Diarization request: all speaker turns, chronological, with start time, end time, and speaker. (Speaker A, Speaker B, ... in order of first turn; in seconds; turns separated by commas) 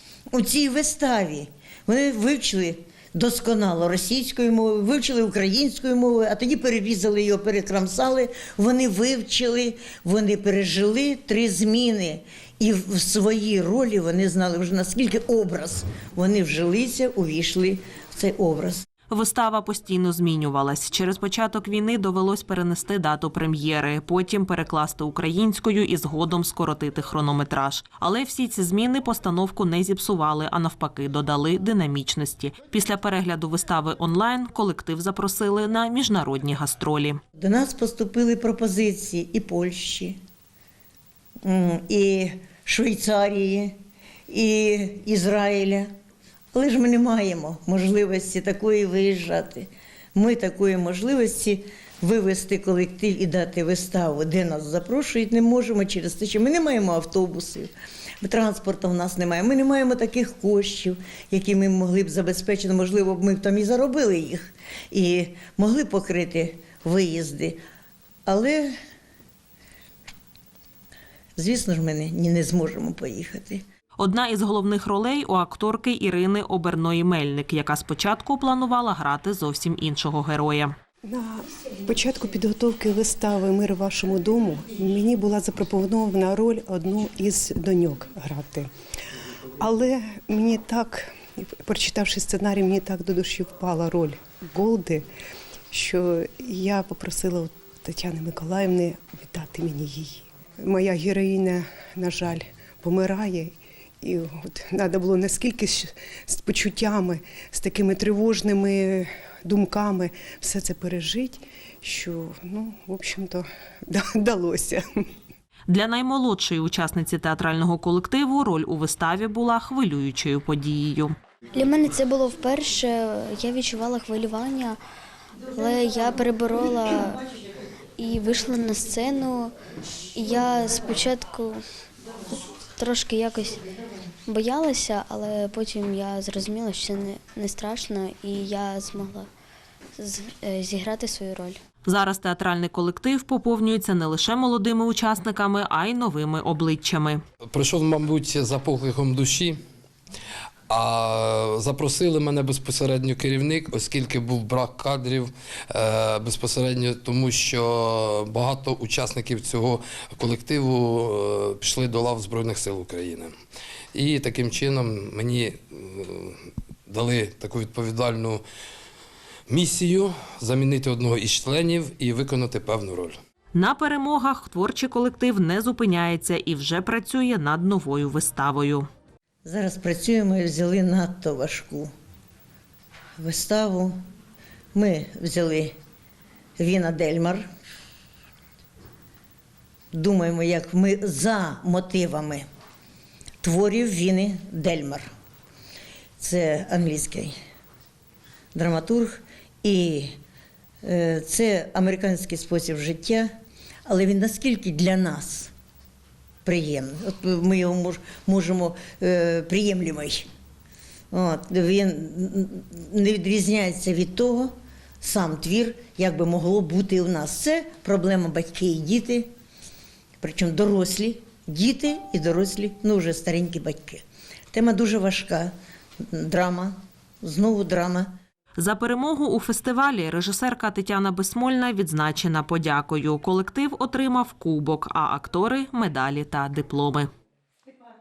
Speaker A: 0.3-18.8, Speaker B: 19.1-37.2, Speaker A: 37.4-40.2, Speaker A: 41.5-43.8, Speaker A: 44.3-45.9, Speaker A: 46.5-57.7, Speaker A: 58.2-67.6, Speaker A: 68.3-68.7, Speaker A: 71.4-73.6, Speaker B: 74.0-80.8, Speaker C: 81.0-88.7, Speaker C: 89.6-95.0, Speaker C: 95.7-114.8, Speaker B: 115.7-121.2, Speaker D: 121.5-124.8, Speaker D: 125.5-127.2, Speaker D: 128.0-129.5, Speaker D: 130.2-131.6, Speaker D: 132.3-133.6, Speaker D: 134.3-139.3, Speaker D: 140.0-141.6, Speaker B: 141.9-147.2, Speaker E: 147.5-149.6, Speaker E: 150.7-163.3, Speaker E: 163.9-166.4, Speaker E: 166.9-168.4, Speaker E: 169.5-173.2, Speaker B: 173.5-178.9, Speaker A: 179.4-181.9, Speaker A: 183.2-183.9, Speaker A: 184.7-185.7, Speaker A: 186.6-187.5, Speaker A: 189.9-192.5, Speaker A: 193.4-195.1, Speaker A: 196.2-197.3, Speaker A: 198.5-200.1, Speaker A: 200.8-203.3, Speaker A: 203.9-205.5, Speaker A: 206.4-210.3, Speaker A: 211.1-219.3, Speaker A: 220.2-224.0, Speaker A: 224.5-225.5, Speaker A: 226.1-228.1, Speaker B: 228.6-237.1